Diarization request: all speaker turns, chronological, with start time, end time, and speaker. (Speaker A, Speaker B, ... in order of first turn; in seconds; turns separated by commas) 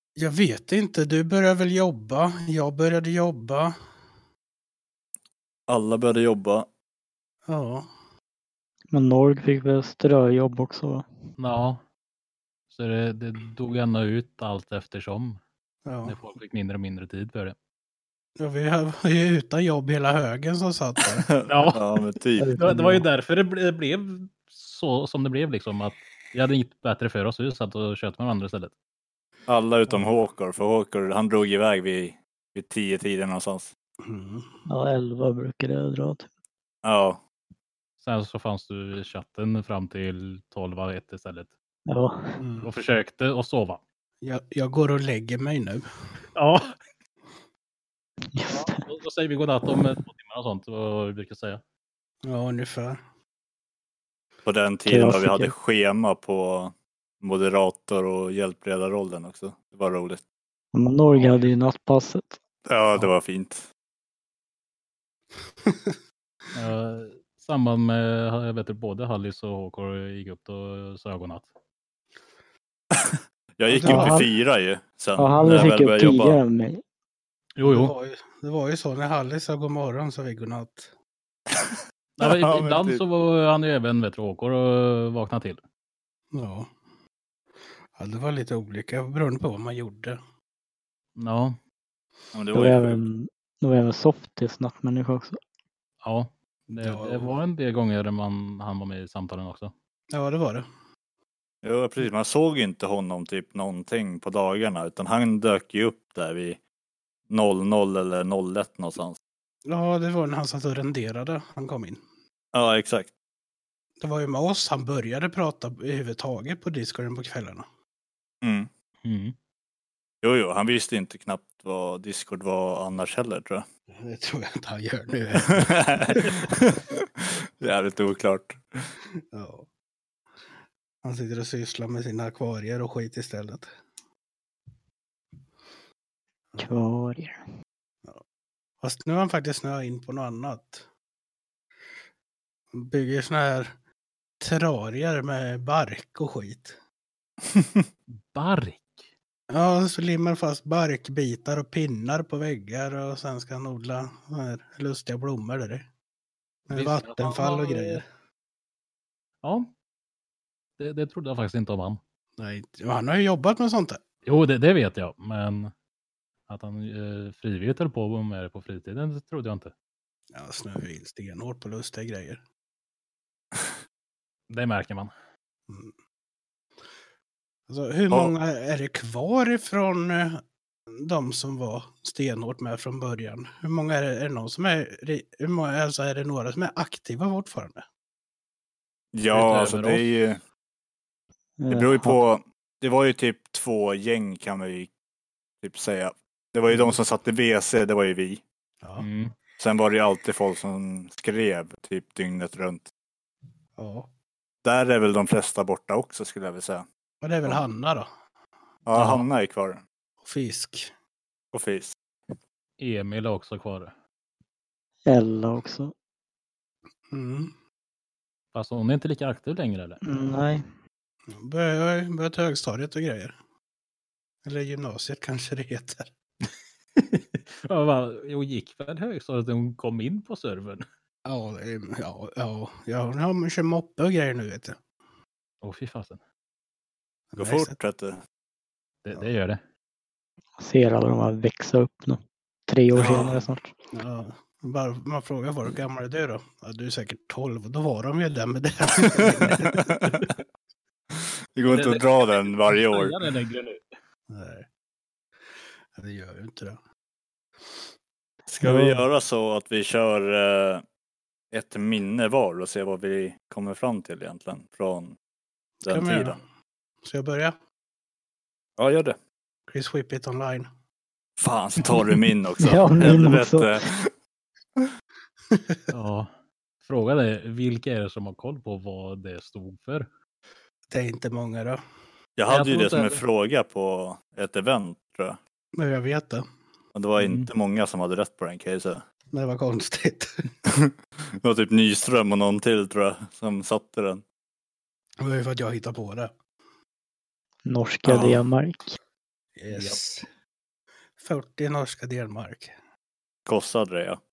Speaker A: 0.2-3.7, Speaker B: 5.7-6.7, Speaker A: 7.5-7.9, Speaker C: 8.9-11.1, Speaker D: 11.4-11.8, Speaker D: 12.7-15.4, Speaker A: 15.8-16.2, Speaker D: 16.1-17.6, Speaker A: 18.4-21.3, Speaker B: 21.3-22.7, Speaker D: 21.5-21.8, Speaker C: 22.4-23.1, Speaker D: 22.6-28.8, Speaker B: 29.5-33.7, Speaker A: 34.0-34.5, Speaker C: 34.7-36.3, Speaker B: 36.8-37.2, Speaker D: 38.0-41.5, Speaker C: 41.9-42.4, Speaker A: 42.4-42.7, Speaker D: 42.6-43.8, Speaker A: 44.2-45.9, Speaker D: 46.4-46.8, Speaker C: 48.3-48.8, Speaker D: 48.5-51.6, Speaker A: 52.2-53.0, Speaker B: 54.5-60.2, Speaker C: 54.9-55.5, Speaker C: 60.7-62.4, Speaker D: 61.1-61.5, Speaker B: 62.7-63.7, Speaker A: 65.6-66.0, Speaker D: 66.5-71.5, Speaker B: 73.0-76.4, Speaker A: 73.7-74.2, Speaker C: 73.8-74.3, Speaker C: 75.2-76.8, Speaker D: 77.6-77.9, Speaker A: 77.6-80.9, Speaker D: 82.2-85.6, Speaker B: 82.2-83.0, Speaker A: 86.3-86.7, Speaker A: 87.9-90.2, Speaker D: 91.2-91.6, Speaker B: 92.3-93.0, Speaker C: 92.5-95.4, Speaker D: 96.0-99.7, Speaker A: 96.8-97.3, Speaker A: 100.1-100.7, Speaker B: 101.6-106.6, Speaker B: 107.3-109.2, Speaker A: 109.7-112.0, Speaker B: 112.5-113.1, Speaker A: 114.0-117.7, Speaker B: 118.4-118.7, Speaker D: 119.0-119.4, Speaker B: 120.2-123.7, Speaker A: 124.0-126.5, Speaker B: 125.6-128.6, Speaker A: 129.3-129.7, Speaker A: 131.0-133.7, Speaker C: 136.6-137.4, Speaker A: 138.8-140.9, Speaker A: 142.7-143.7, Speaker A: 144.4-146.8, Speaker B: 147.5-147.8, Speaker D: 148.1-149.1, Speaker A: 149.5-155.9, Speaker A: 156.7-158.1, Speaker D: 156.7-158.0, Speaker D: 159.4-159.7, Speaker D: 160.8-162.0, Speaker A: 162.4-164.0, Speaker D: 164.2-165.7, Speaker D: 166.5-169.7, Speaker A: 170.3-172.4, Speaker D: 174.5-175.1, Speaker A: 175.7-175.9, Speaker A: 177.7-180.4, Speaker A: 180.9-187.8, Speaker B: 189.1-190.4, Speaker D: 189.3-190.1, Speaker C: 191.6-192.2, Speaker B: 191.7-194.9, Speaker B: 195.6-198.4, Speaker D: 199.0-199.3, Speaker B: 199.6-202.9, Speaker A: 203.8-204.1, Speaker B: 204.6-206.8, Speaker A: 207.2-208.1, Speaker B: 208.9-209.8, Speaker D: 208.9-209.2, Speaker A: 210.2-210.9, Speaker B: 211.5-211.9, Speaker D: 212.8-213.9, Speaker C: 215.1-215.9, Speaker A: 217.1-217.5, Speaker D: 218.5-220.0, Speaker C: 220.0-220.6, Speaker A: 221.3-223.3, Speaker A: 224.4-226.1, Speaker D: 227.0-230.8, Speaker A: 231.2-234.8, Speaker D: 235.6-236.2, Speaker A: 237.3-237.8, Speaker B: 237.4-238.2, Speaker D: 239.0-239.6, Speaker C: 240.6-243.7, Speaker B: 243.0-243.4, Speaker A: 243.0-243.3, Speaker A: 243.9-249.8, Speaker B: 249.3-250.3, Speaker B: 251.6-253.2, Speaker D: 251.7-253.8, Speaker A: 254.3-254.7, Speaker A: 255.6-256.8, Speaker B: 258.5-260.8, Speaker C: 258.6-259.0, Speaker B: 261.5-265.1, Speaker A: 265.8-266.4, Speaker B: 265.8-266.4, Speaker A: 267.0-267.6, Speaker B: 268.8-269.2, Speaker A: 269.7-270.7, Speaker B: 271.4-274.1, Speaker C: 272.6-273.8, Speaker A: 275.5-275.8, Speaker D: 275.9-276.3, Speaker D: 276.8-280.1, Speaker A: 280.9-281.8, Speaker B: 282.4-285.4, Speaker D: 282.5-283.2, Speaker A: 285.7-286.4, Speaker B: 286.9-289.0, Speaker D: 287.2-287.5, Speaker A: 289.3-290.5, Speaker B: 290.7-294.2, Speaker A: 295.2-296.4, Speaker C: 297.7-299.0, Speaker B: 298.1-298.4, Speaker A: 299.6-300.3, Speaker D: 299.7-300.0, Speaker A: 301.2-302.7, Speaker B: 303.5-304.2